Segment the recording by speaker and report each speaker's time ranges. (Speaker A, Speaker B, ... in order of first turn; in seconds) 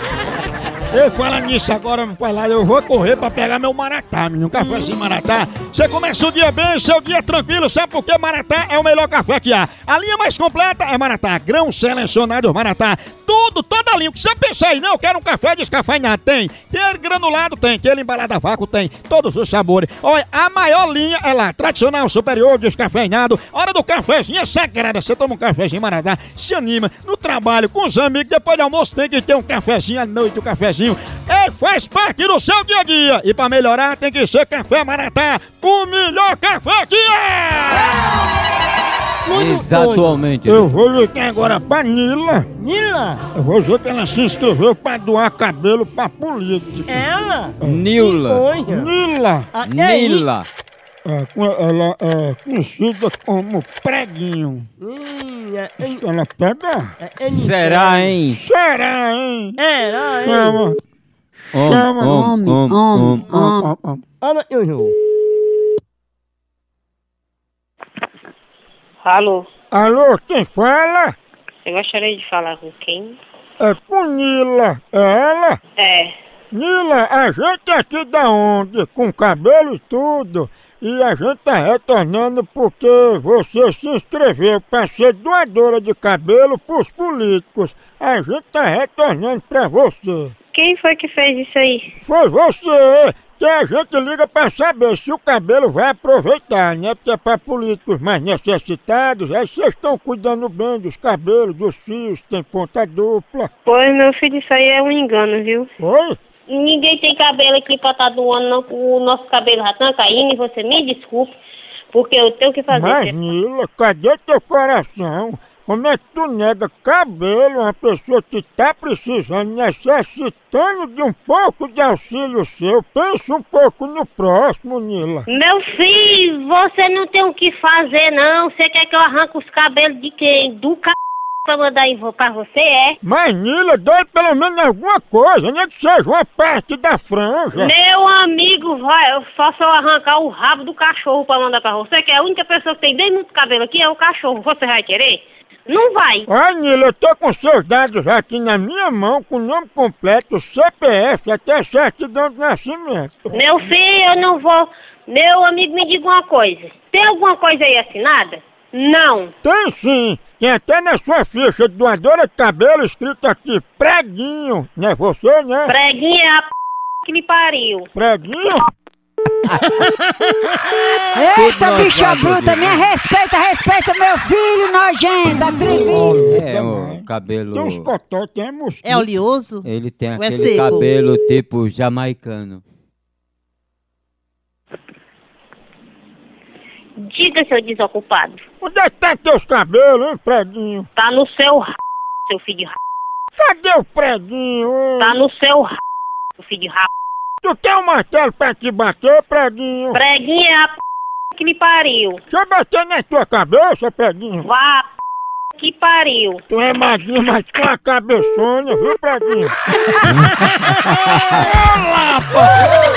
Speaker A: 0.9-38.1, 40.5-42.5, 43.4-47.0, 47.6-47.9, 48.7-49.5, 51.0-54.7, 55.8-56.9, 58.4-59.6, 60.2-60.7, 61.6-62.3, 63.2-64.0, 69.7-71.2, 73.6-75.6, 76.5-90.3, 92.0-103.5, 105.8-106.2, 112.7-125.2, 133.0-137.7, 146.3-153.3, 159.4-165.8, 167.9-168.6, 175.6-179.1, 188.6-190.9, 193.4-195.2, 197.4-200.0, 202.3-204.5, 206.5-212.6
Speaker B: 39.2-40.1, 42.6-43.2, 46.9-48.9, 49.5-50.3, 54.8-56.0, 57.0-58.1, 59.6-60.6, 64.2-64.9
Speaker C: 39.3-40.7, 47.6-48.4, 49.6-50.5, 57.3-58.4, 61.5-63.3, 171.3-172.9, 176.2-177.9, 179.6-182.6, 210.7-211.4
Speaker D: 62.1-63.7, 171.2-176.2
Speaker E: 69.0-69.5, 71.7-73.2, 75.8-76.1, 90.5-91.9, 103.7-105.7, 106.5-111.4, 111.9-113.1, 125.3-133.0, 137.6-146.3, 153.3-159.3, 165.7-166.4, 167.0-167.9, 187.0-188.4, 191.0-191.7, 192.3-192.8, 195.0-195.8, 196.4-196.9, 199.9-200.8, 201.3-202.2, 204.4-204.9, 205.6-206.4
Speaker F: 178.8-180.9